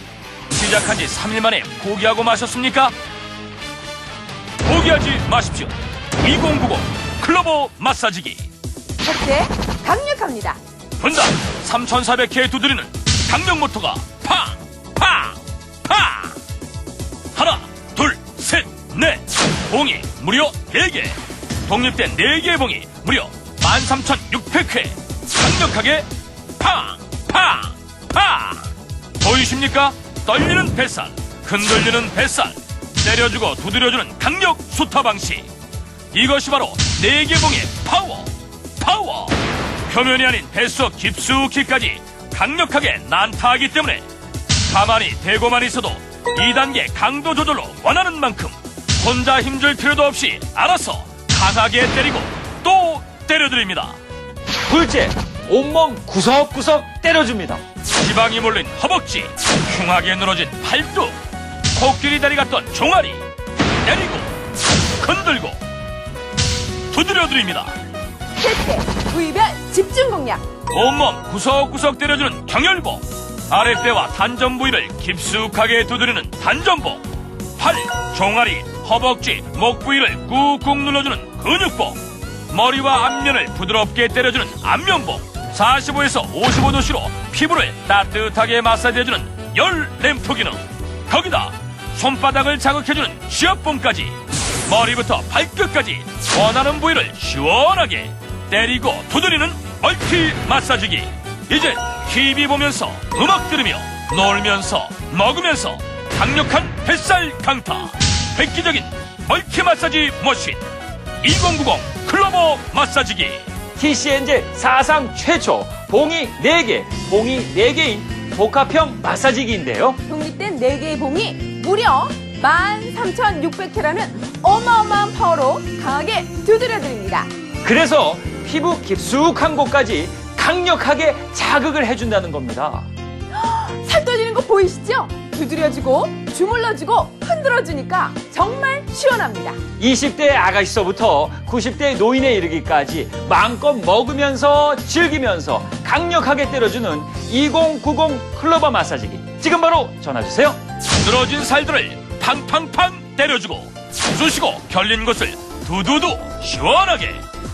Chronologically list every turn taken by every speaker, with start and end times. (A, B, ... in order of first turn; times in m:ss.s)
0:00.5-0:02.9 A
0:04.6-0:08.5 A
0:09.0-0:10.6 B
0:11.0-0:16.4 A
0:17.3-0:26.1 A
0:26.6-0:35.5 A
0:36.1-0:39.4 A
0:39.9-0:44.0 A
0:44.7-0:54.0 A
0:54.7-0:57.6 C
0:58.0-1:01.2 A
1:01.7-1:03.2 A
1:03.8-1:04.3 A
1:05.0-1:05.6 A
1:06.9-1:07.8 A
1:08.4-1:10.4 B
1:10.7-1:17.0 A
1:17.6-1:34.2 A
1:34.7-1:50.6 A
1:51.2-1:53.4 A
1:53.8-2:00.0 C
2:00.0-2:07.3 B
2:07.6-2:12.9 C
2:13.3-2:19.6 B
2:19.8-2:30.6 C
2:31.0-2:37.2 A